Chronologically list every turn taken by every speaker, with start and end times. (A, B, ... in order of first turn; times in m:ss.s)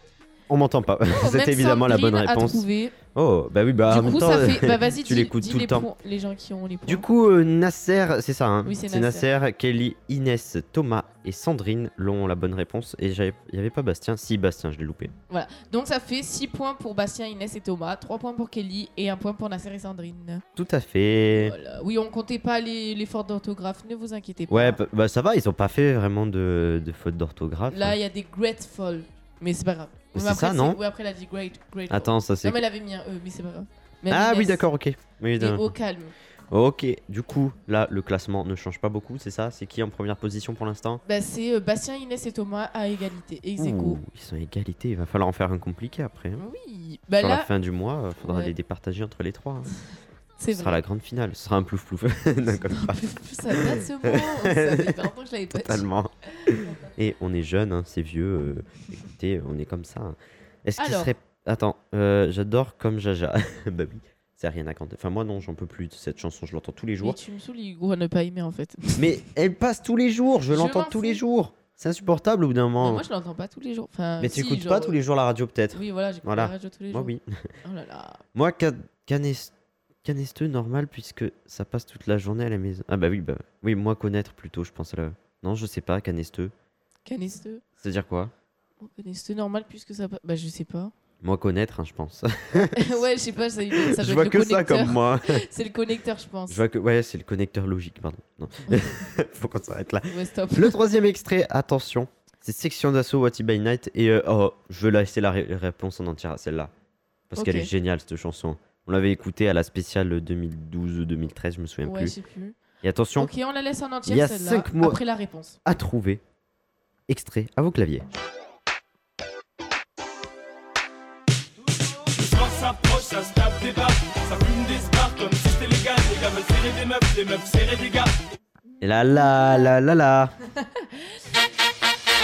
0:00.5-0:05.9 A
0:01.1-0:02.9 B
0:03.9-0:07.0 B
0:06.9-0:15.1 A
0:08.6-0:09.3 B
0:15.3-0:20.4 B
0:20.6-0:21.5 A
0:21.3-0:24.8 B
0:24.5-0:28.0 A
0:27.7-0:34.6 B
0:30.1-0:30.8 A
0:31.9-0:32.6 A
0:34.1-0:35.7 A
0:35.4-0:36.1 B
0:36.5-0:41.0 A
0:41.0-0:44.0 B
0:43.6-0:46.4 A
0:46.4-0:47.5 B
0:47.2-0:49.7 A
0:48.2-0:48.5 B
0:50.4-0:50.8 B
0:50.5-0:55.0 A
0:52.7-0:55.9 B
0:55.5-1:07.2 A
0:56.4-0:56.8 B
1:00.8-1:01.1 B
1:07.0-1:09.2 B
1:09.0-1:13.0 A
1:10.5-1:11.2 B
1:12.8-1:15.0 B
1:14.2-1:17.5 A
1:15.7-1:18.2 B
1:18.3-1:19.5 A
1:20.0-1:26.5 A
1:27.0-1:27.6 B
1:27.8-1:28.3 A
1:28.8-1:30.9 B
1:31.2-1:33.0 A
1:32.6-1:36.6 B
1:33.7-1:35.4 A
1:36.5-1:46.7 A
1:38.7-1:39.0 B
1:40.1-1:40.8 B
1:47.3-1:52.2 A
1:47.4-1:47.7 B
1:51.8-1:52.6 B
1:52.8-1:53.3 A
1:53.2-1:55.6 B
1:54.0-1:55.0 A
1:55.6-1:56.2 A
1:57.1-1:58.0 A
2:02.1-2:08.2 C
2:08.8-2:10.3 A
2:09.1-2:09.6 B
2:10.6-2:11.0 B